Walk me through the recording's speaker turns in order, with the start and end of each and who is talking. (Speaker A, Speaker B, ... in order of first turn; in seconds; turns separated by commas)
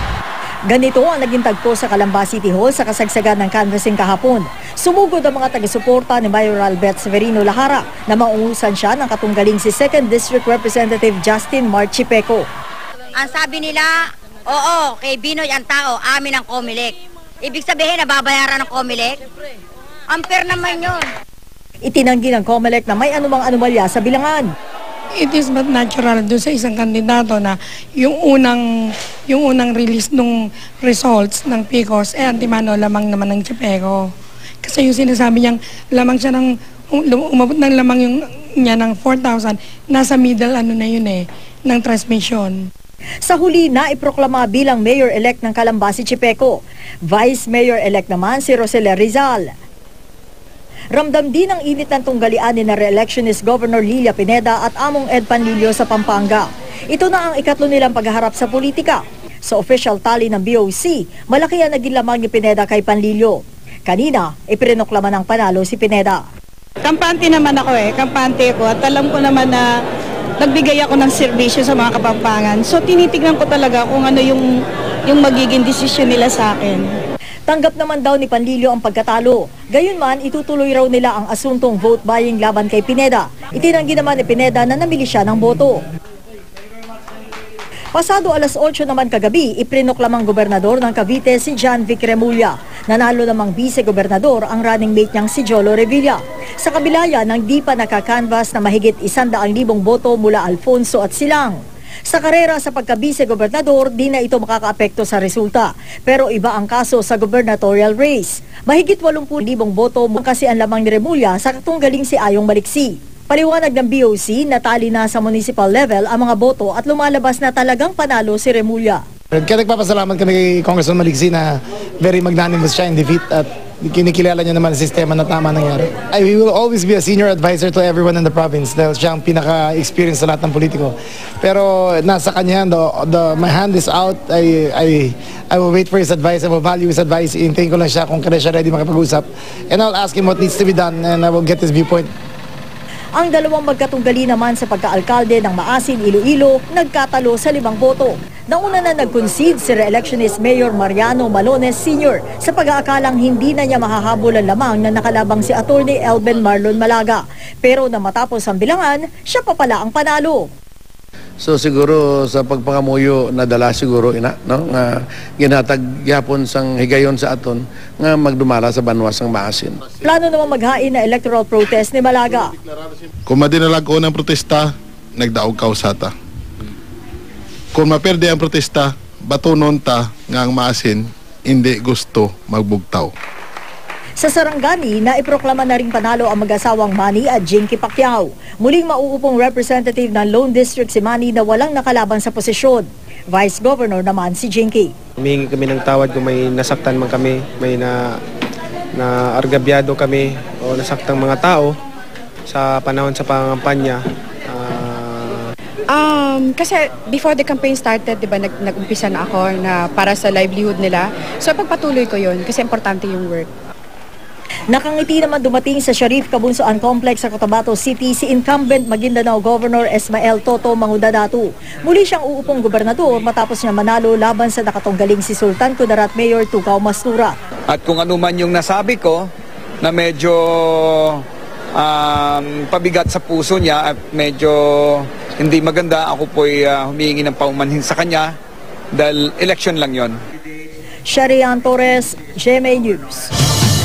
Speaker A: 0.7-12.5, Speaker B: 13.2-19.2, Speaker B: 20.1-21.1, Speaker A: 21.8-24.4, Speaker C: 25.2-34.1, Speaker C: 34.6-42.7, Speaker A: 43.2-49.5, Speaker A: 50.9-66.2, Speaker D: 66.8-69.7, Speaker D: 70.4-74.5, Speaker D: 75.0-76.9, Speaker A: 77.5-85.8, Speaker A: 87.9-101.6, Speaker A: 102.1-119.0, Speaker E: 119.3-142.1, Speaker A: 143.2-160.5, Speaker F: 161.4-169.8, Speaker A: 170.0-172.5, Speaker G: 173.2-176.1, Speaker G: 177.7-183.1, Speaker A: 184.2-194.9, Speaker H: 195.2-198.0, Speaker H: 198.9-201.7, Speaker H: 202.5-204.0, Speaker H: 204.5-205.4, Speaker I: 205.9-213.5, Speaker A: 214.7-227.3, Speaker J: 227.7-229.3, Speaker J: 229.8-231.2, Speaker J: 231.8-238.3, Speaker J: 238.9-240.2, Speaker A: 241.1-243.3